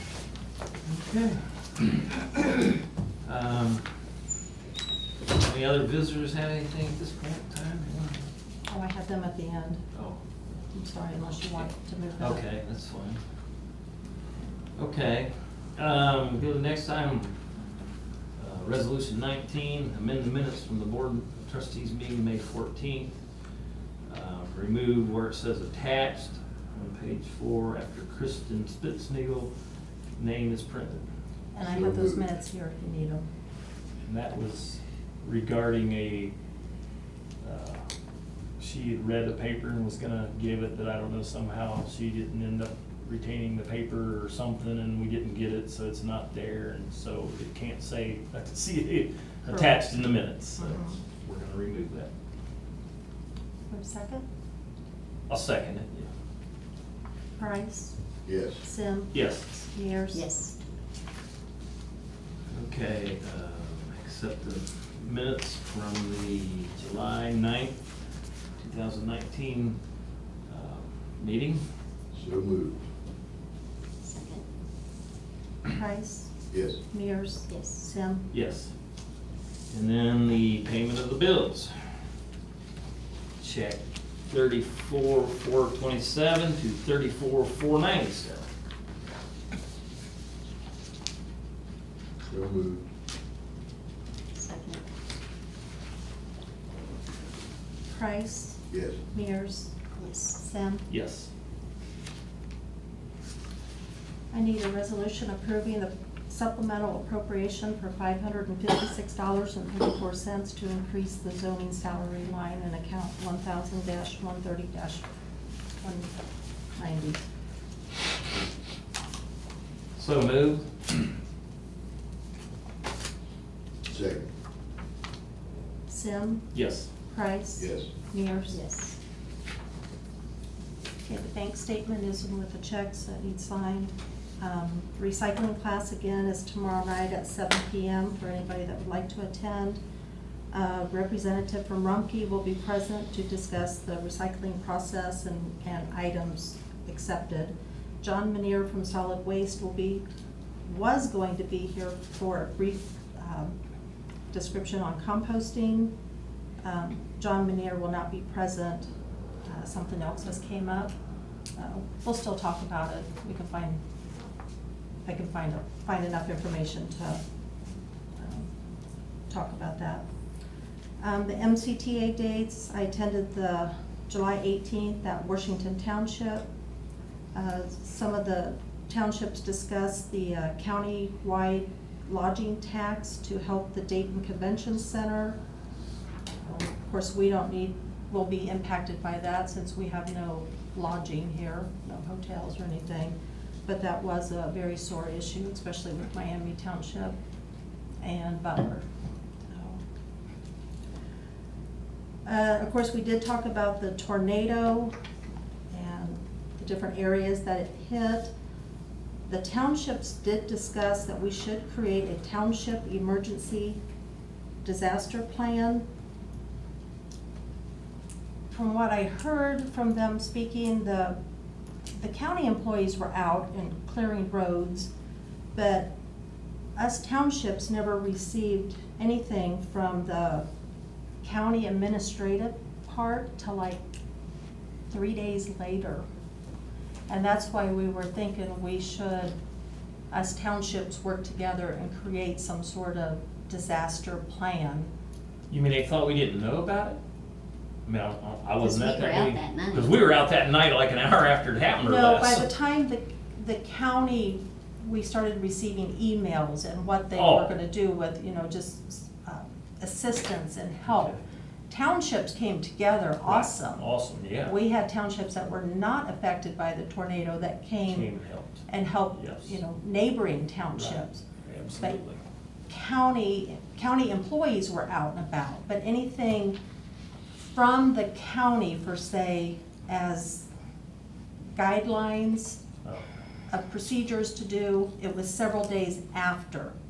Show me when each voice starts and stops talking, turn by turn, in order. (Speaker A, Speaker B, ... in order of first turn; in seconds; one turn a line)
Speaker A: 0.9-2.2
Speaker A: 3.2-3.9
Speaker A: 5.3-8.3
Speaker B: 8.7-9.8
Speaker A: 9.9-10.2
Speaker B: 10.7-12.4
Speaker A: 11.6-13.2
Speaker A: 14.8-17.4
Speaker A: 18.4-23.1
Speaker A: 24.1-29.5
Speaker A: 30.2-31.0
Speaker B: 31.5-33.3
Speaker C: 31.6-32.2
Speaker A: 34.0-36.3
Speaker A: 37.4-37.8
Speaker A: 38.6-52.1
Speaker B: 49.5-49.8
Speaker B: 50.6-51.0
Speaker B: 53.7-54.2
Speaker A: 55.3-56.1
Speaker B: 57.4-58.0
Speaker C: 58.2-58.6
Speaker B: 58.6-60.3
Speaker A: 59.1-59.5
Speaker D: 60.1-60.5
Speaker A: 62.5-67.8
Speaker A: 68.6-69.8
Speaker A: 70.5-71.6
Speaker C: 72.1-72.8
Speaker D: 74.0-74.5
Speaker B: 75.7-76.3
Speaker C: 76.5-76.8
Speaker B: 76.9-78.3
Speaker D: 77.5-77.8
Speaker A: 78.3-78.7
Speaker A: 79.7-81.8
Speaker A: 83.4-88.5
Speaker C: 92.2-92.8
Speaker D: 94.3-94.8
Speaker B: 97.9-99.8
Speaker C: 98.7-99.0
Speaker D: 100.0-100.4
Speaker B: 100.3-100.9
Speaker A: 100.9-101.3
Speaker B: 104.3-115.1
Speaker B: 115.8-116.1
Speaker B: 116.8-117.2
Speaker A: 120.0-121.0
Speaker C: 123.9-124.3
Speaker B: 125.9-126.5
Speaker A: 126.5-126.9
Speaker B: 127.1-128.6
Speaker C: 127.6-127.9
Speaker D: 128.5-128.9
Speaker B: 131.0-139.8
Speaker B: 140.5-150.0
Speaker B: 150.7-153.6
Speaker B: 154.3-155.9
Speaker B: 156.6-158.9
Speaker B: 159.4-160.9
Speaker B: 161.6-163.8
Speaker B: 165.1-167.2
Speaker B: 168.2-168.5
Speaker B: 169.3-170.1
Speaker B: 171.0-176.5
Speaker B: 177.3-185.4
Speaker B: 186.4-197.2
Speaker B: 198.0-198.8
Speaker B: 199.5-199.8
Speaker B: 202.2-204.9
Speaker B: 205.7-208.3
Speaker B: 209.3-213.8
Speaker B: 214.6-215.8
Speaker B: 218.5-221.2
Speaker B: 221.9-224.9
Speaker B: 225.5-225.9
Speaker B: 226.8-230.5
Speaker B: 231.2-233.8
Speaker B: 234.9-236.0
Speaker B: 237.1-239.3
Speaker B: 240.1-244.9
Speaker A: 245.5-247.0
Speaker A: 247.9-252.5
Speaker D: 248.6-249.9
Speaker B: 251.8-263.8
Speaker A: 257.1-257.5
Speaker A: 260.9-261.2
Speaker A: 263.2-264.6
Speaker B: 264.4-268.1
Speaker A: 267.9-269.6
Speaker B: 268.7-271.2
Speaker A: 270.7-272.2
Speaker B: 272.7-276.6
Speaker B: 277.4-280.5
Speaker B: 281.6-282.6
Speaker A: 282.8-283.1
Speaker B: 283.5-286.8